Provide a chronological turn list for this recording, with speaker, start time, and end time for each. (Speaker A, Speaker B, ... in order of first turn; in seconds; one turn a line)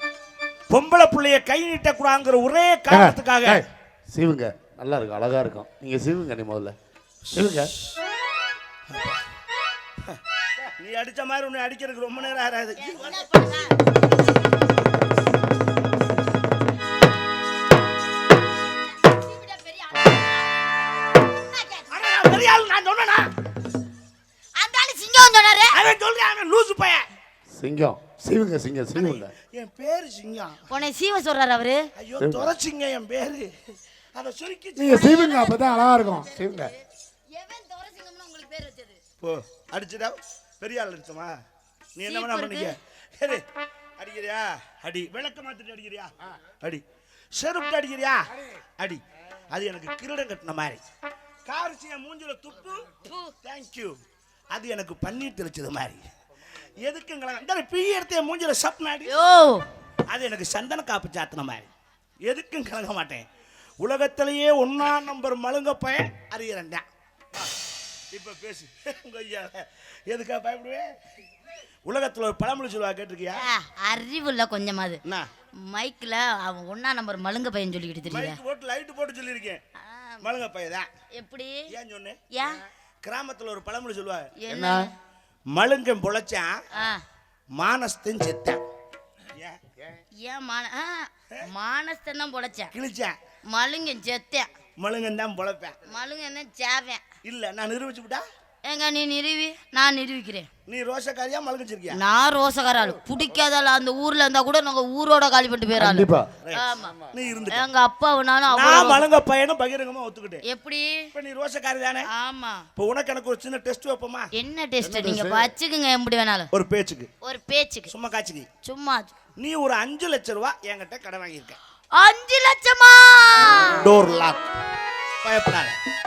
Speaker A: 0.7-3.6
Speaker B: 2.9-6.8
Speaker A: 7.3-8.0
Speaker B: 7.3-7.7
Speaker A: 8.9-9.2
Speaker A: 10.0-13.3
Speaker C: 12.8-13.8
Speaker C: 19.0-20.5
Speaker C: 21.5-21.9
Speaker A: 21.9-23.3
Speaker C: 24.6-25.8
Speaker A: 25.7-27.1
Speaker B: 27.5-29.3
Speaker A: 29.0-30.7
Speaker C: 30.7-31.9
Speaker A: 32.0-35.0
Speaker B: 32.2-32.5
Speaker B: 34.8-36.7
Speaker C: 34.9-36.8
Speaker C: 37.3-39.0
Speaker A: 39.2-41.4
Speaker A: 42.0-43.5
Speaker C: 42.1-42.8
Speaker A: 44.0-50.8
Speaker A: 51.5-54.0
Speaker C: 53.0-53.3
Speaker A: 54.5-56.0
Speaker A: 56.8-59.2
Speaker C: 59.1-59.6
Speaker A: 60.1-61.7
Speaker A: 62.2-63.3
Speaker A: 63.8-67.5
Speaker A: 68.1-70.9
Speaker A: 71.9-73.5
Speaker C: 73.3-75.0
Speaker C: 75.6-78.4
Speaker A: 78.1-79.6
Speaker C: 79.8-80.2
Speaker A: 80.2-80.9
Speaker C: 81.1-81.7
Speaker A: 81.7-82.2
Speaker C: 82.3-82.6
Speaker A: 83.0-84.3
Speaker C: 84.4-84.9
Speaker B: 84.5-84.9
Speaker A: 85.5-86.6
Speaker C: 86.7-87.0
Speaker A: 87.6-88.6
Speaker A: 89.3-89.6
Speaker C: 90.2-92.7
Speaker A: 92.7-93.2
Speaker C: 93.5-94.5
Speaker A: 94.8-95.8
Speaker C: 95.9-97.0
Speaker A: 97.2-98.2
Speaker C: 98.7-100.5
Speaker A: 100.7-102.0
Speaker C: 101.9-107.0
Speaker B: 105.8-106.3
Speaker A: 106.4-107.6
Speaker B: 106.9-107.4
Speaker C: 107.5-109.0
Speaker A: 108.5-110.4
Speaker C: 110.5-111.1
Speaker A: 111.1-112.1
Speaker C: 112.1-112.7
Speaker A: 112.8-114.3
Speaker C: 114.3-116.5
Speaker B: 114.8-115.5
Speaker A: 116.5-117.1
Speaker C: 117.2-117.9
Speaker A: 117.9-118.5
Speaker C: 118.6-119.1
Speaker A: 119.4-121.6
Speaker C: 122.0-123.9
Speaker A: 123.4-124.4
Speaker A: 125.2-125.8